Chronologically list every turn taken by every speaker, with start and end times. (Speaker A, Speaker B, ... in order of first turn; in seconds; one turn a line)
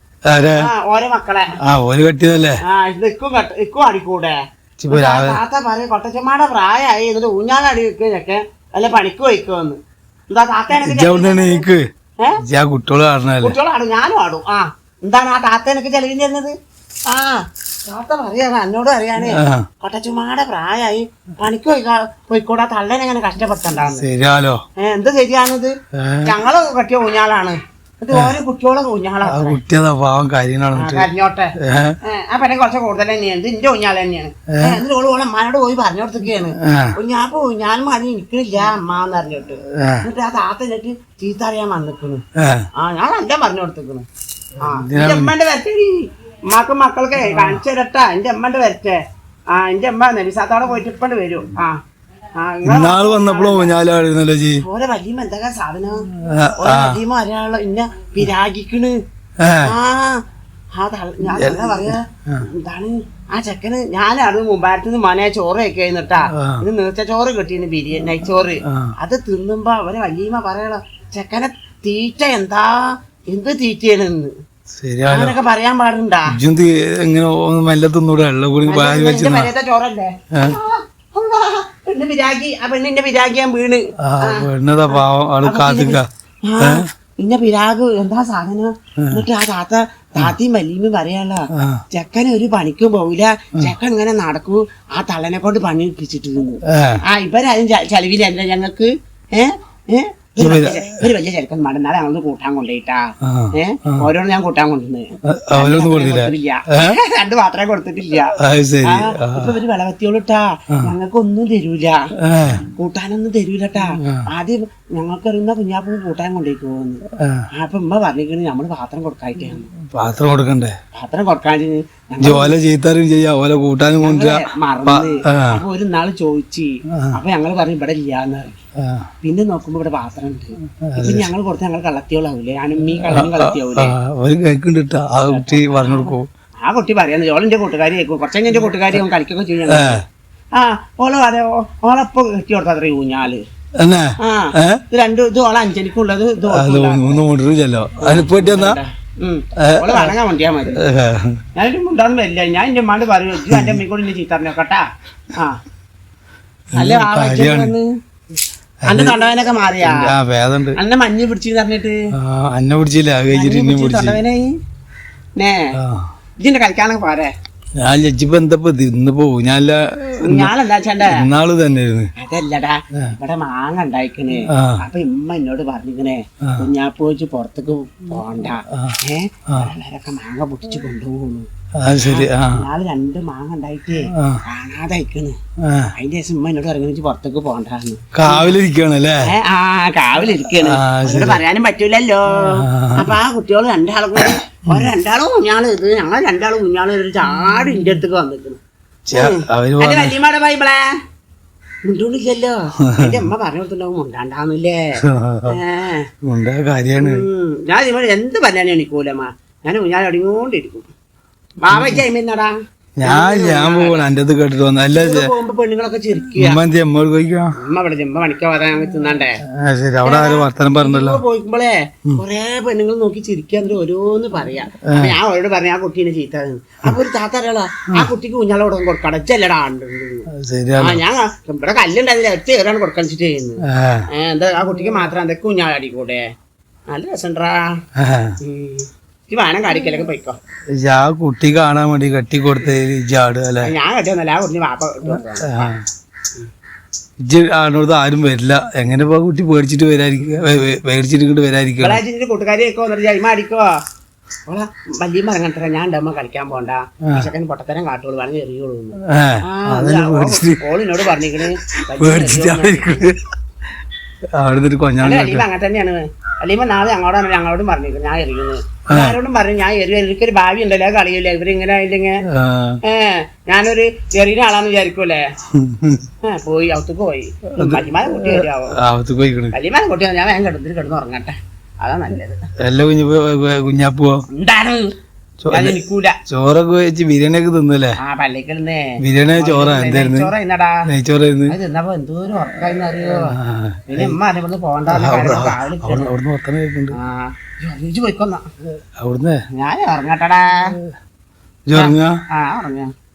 Speaker A: 0.3-0.7
Speaker B: 0.6-1.5
Speaker A: 1.6-2.6
Speaker B: 2.7-4.4
Speaker A: 4.8-5.4
Speaker B: 4.9-9.8
Speaker B: 10.3-11.7
Speaker A: 10.7-11.8
Speaker A: 12.4-13.6
Speaker B: 13.4-16.5
Speaker B: 17.1-24.1
Speaker A: 19.2-19.7
Speaker A: 23.9-24.6
Speaker B: 24.8-29.6
Speaker A: 25.9-26.4
Speaker A: 28.1-28.4
Speaker A: 29.3-32.0
Speaker B: 30.7-31.5
Speaker B: 32.0-42.2
Speaker A: 34.5-34.8
Speaker A: 36.6-36.9
Speaker A: 39.8-40.0
Speaker A: 42.4-42.7
Speaker B: 42.8-44.1
Speaker B: 44.6-49.0
Speaker A: 44.6-45.3
Speaker A: 47.2-47.6
Speaker B: 49.5-51.8
Speaker B: 52.4-53.7
Speaker A: 52.6-54.6
Speaker B: 54.6-59.0
Speaker A: 56.2-57.0
Speaker A: 59.4-59.8
Speaker B: 59.6-60.2
Speaker B: 60.8-74.3
Speaker A: 61.3-62.5
Speaker A: 66.4-66.7
Speaker A: 68.7-68.9
Speaker A: 74.8-75.4
Speaker B: 75.1-76.4
Speaker A: 76.3-79.5
Speaker B: 78.7-117.0
Speaker A: 84.0-86.1
Speaker A: 86.6-86.9
Speaker A: 89.0-89.2
Speaker A: 91.5-91.8
Speaker A: 96.7-97.0
Speaker A: 100.4-101.0
Speaker A: 103.2-104.1
Speaker A: 105.3-107.0
Speaker A: 108.4-109.5
Speaker A: 112.2-112.6
Speaker A: 114.0-114.3
Speaker A: 117.2-117.5
Speaker B: 117.5-119.7
Speaker A: 119.9-120.8
Speaker B: 120.9-122.6
Speaker A: 122.2-125.6
Speaker B: 124.0-128.6
Speaker A: 128.8-129.1
Speaker B: 129.2-133.9
Speaker A: 130.8-131.3
Speaker A: 133.0-136.3
Speaker B: 135.3-140.0
Speaker A: 139.7-140.0
Speaker B: 140.6-143.4
Speaker A: 143.8-144.8
Speaker B: 144.2-147.2
Speaker A: 146.5-148.8
Speaker B: 148.0-150.8
Speaker A: 149.6-150.2
Speaker A: 150.8-151.4
Speaker B: 151.6-155.6
Speaker A: 153.5-153.8
Speaker A: 156.7-157.7
Speaker B: 156.8-157.9
Speaker A: 158.9-159.2
Speaker B: 158.9-160.1
Speaker A: 159.8-160.8
Speaker B: 160.8-162.0
Speaker A: 162.2-164.2
Speaker B: 163.3-164.5
Speaker B: 165.4-165.7
Speaker A: 165.8-166.1
Speaker B: 166.4-167.3
Speaker A: 167.8-172.1
Speaker B: 170.2-171.2
Speaker B: 172.2-185.4
Speaker A: 174.5-174.8
Speaker A: 178.7-179.0
Speaker A: 181.8-182.6
Speaker A: 184.1-184.4
Speaker A: 185.6-185.9
Speaker B: 186.0-188.6
Speaker A: 188.1-189.2
Speaker B: 189.2-198.6
Speaker A: 190.5-191.4
Speaker A: 192.3-193.1
Speaker A: 194.2-194.9
Speaker A: 199.1-200.2
Speaker B: 199.1-200.9
Speaker B: 201.9-206.1
Speaker A: 202.9-203.2
Speaker A: 205.0-205.6
Speaker A: 206.2-207.2
Speaker B: 207.0-210.9
Speaker B: 211.6-214.0
Speaker A: 211.7-212.0
Speaker A: 213.0-215.3
Speaker B: 214.9-216.6
Speaker A: 216.3-217.6
Speaker B: 217.6-219.4
Speaker A: 219.5-221.2
Speaker B: 220.1-236.2
Speaker A: 224.9-225.2
Speaker A: 230.3-231.0
Speaker A: 233.7-234.1
Speaker B: 236.9-237.7
Speaker A: 238.0-238.4
Speaker B: 238.4-240.4
Speaker A: 240.8-243.7
Speaker B: 243.6-245.7
Speaker A: 245.1-245.8
Speaker A: 247.2-252.0
Speaker B: 251.8-253.7
Speaker B: 254.5-263.1
Speaker A: 259.1-260.6
Speaker A: 261.6-263.2
Speaker A: 264.4-265.5
Speaker B: 265.0-272.2
Speaker A: 268.9-269.2
Speaker A: 272.3-272.8
Speaker B: 272.9-275.2
Speaker A: 275.5-276.1
Speaker B: 276.2-278.8
Speaker A: 277.6-279.6
Speaker B: 279.5-282.4
Speaker A: 282.6-284.2
Speaker B: 284.3-284.9
Speaker A: 285.4-288.0
Speaker B: 285.5-286.2
Speaker B: 288.0-290.9
Speaker A: 289.0-290.3
Speaker A: 290.9-291.6
Speaker B: 291.5-293.4
Speaker A: 292.9-294.2
Speaker B: 293.9-296.1
Speaker A: 294.9-297.0
Speaker B: 296.9-298.4
Speaker A: 299.0-299.4
Speaker B: 299.5-300.8
Speaker A: 301.7-302.2
Speaker B: 301.8-302.9